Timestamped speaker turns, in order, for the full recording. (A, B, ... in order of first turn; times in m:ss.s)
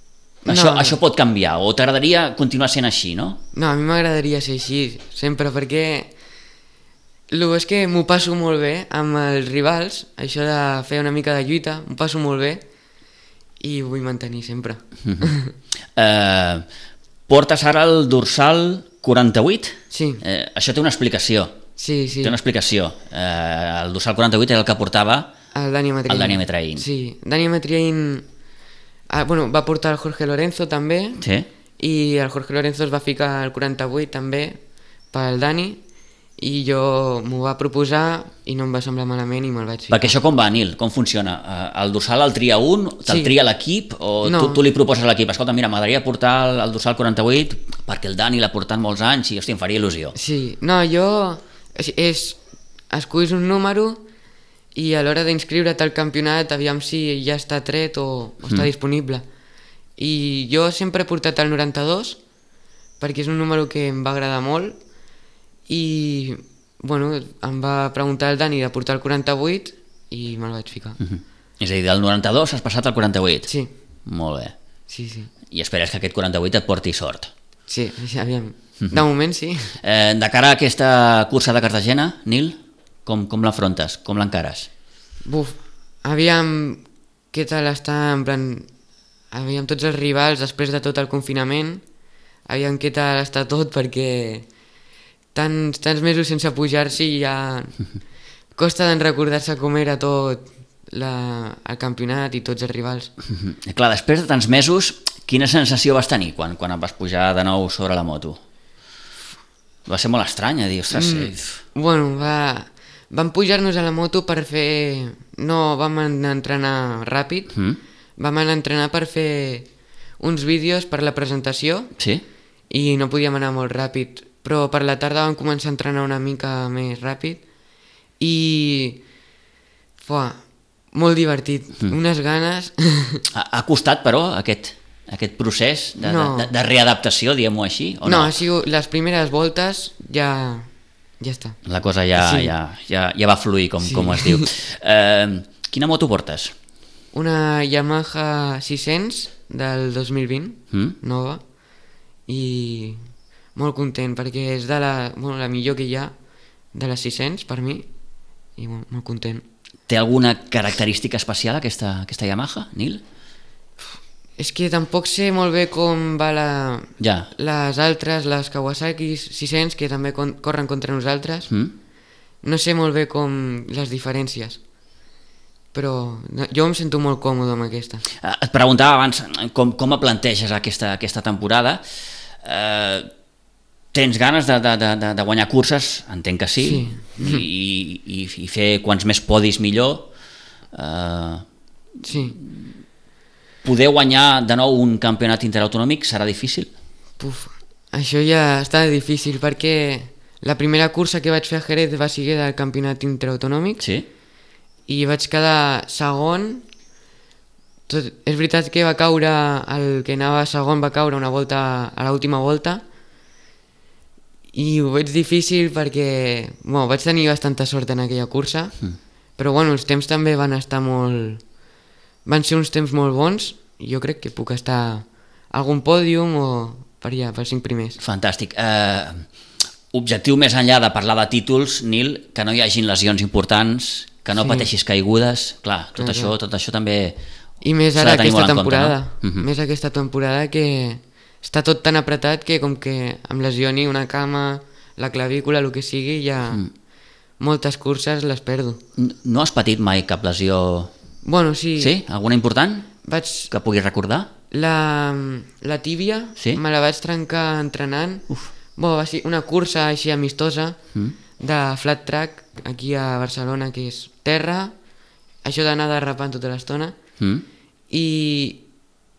0:00.4-0:01.0 A
0:00.5-0:03.4 B
0:03.5-0:06.1 A
0:07.3-0:12.6 A
0:13.6-0:15.5 A
0:16.0-0:16.6 B
0:17.3-0:21.6 B
0:19.9-0:20.2 A
0:21.8-0:22.4 A
0:22.2-0:25.3 B
0:25.5-0:28.2 A
0:26.1-0:26.8 B
0:29.1-0:31.2 A
0:31.2-0:31.5 B
0:31.8-0:34.6 A
0:35.1-0:35.8 A
0:36.4-0:40.1 A
0:39.9-0:50.1 B
0:43.1-0:43.3 A
0:44.2-0:44.6 A
0:50.1-0:52.4 A
0:52.9-0:54.0 A
0:54.7-0:59.2 A
0:58.4-0:58.7 B
1:00.0-1:02.2 A
1:03.0-1:04.8 A
1:05.7-1:11.0 A
1:11.0-1:13.5 B
1:14.1-1:14.5 B
1:14.9-1:15.3 A
1:15.5-1:17.3 B
1:17.7-1:19.8 A
1:19.8-1:24.7 B
1:25.2-1:28.7 A
1:29.3-1:31.8 A
1:32.5-1:34.5 A
1:35.3-1:37.8 A
1:38.6-1:43.1 A
1:43.3-1:48.4 B
1:49.9-1:51.6 B
1:50.9-1:57.6 A
1:57.5-1:57.8 B
1:58.2-1:59.7 A
2:00.2-2:01.9 A
2:02.0-2:02.2 B
2:02.7-2:07.4 A
2:08.2-2:09.0 A
2:10.0-2:13.2 A
2:13.3-2:18.3 B
2:16.0-2:16.5 A
2:18.0-2:21.6 A
2:21.6-2:26.5 B
2:22.2-2:22.5 A
2:23.8-2:24.5 A
2:27.1-2:31.4 A
2:32.3-2:36.1 A
2:36.7-2:37.9 A
2:38.6-2:39.4 A
2:39.9-2:43.0 B
2:44.4-2:51.5 A
2:47.0-2:47.3 B
2:51.5-2:51.8 B
2:52.4-2:54.6 A
2:55.7-2:58.0 A
2:58.2-3:01.8 B
3:02.4-3:03.1 B
3:03.9-3:10.1 B
3:06.6-3:07.4 A
3:10.7-3:11.4 B
3:12.0-3:12.4 A
3:13.6-3:16.7 B
3:17.2-3:23.8 A
3:23.8-3:24.1 B
3:24.9-3:26.6 A
3:27.9-3:32.8 A
3:34.5-3:38.8 A
3:39.4-3:41.4 A
3:42.3-3:48.0 A
3:48.0-3:49.3 B
3:49.9-3:57.1 B
3:54.4-3:54.7 A
3:56.0-3:56.3 A
3:57.6-4:06.6 A
3:58.0-3:59.4 B
4:07.4-4:08.8 A
4:09.0-4:10.9 B
4:11.2-4:12.0 A
4:11.8-4:12.9 B
4:13.0-4:13.5 A
4:13.5-4:14.3 B
4:14.5-4:20.8 A
4:21.4-4:24.7 A
4:25.4-4:27.0 A
4:27.2-4:27.4 B
4:27.9-4:28.6 A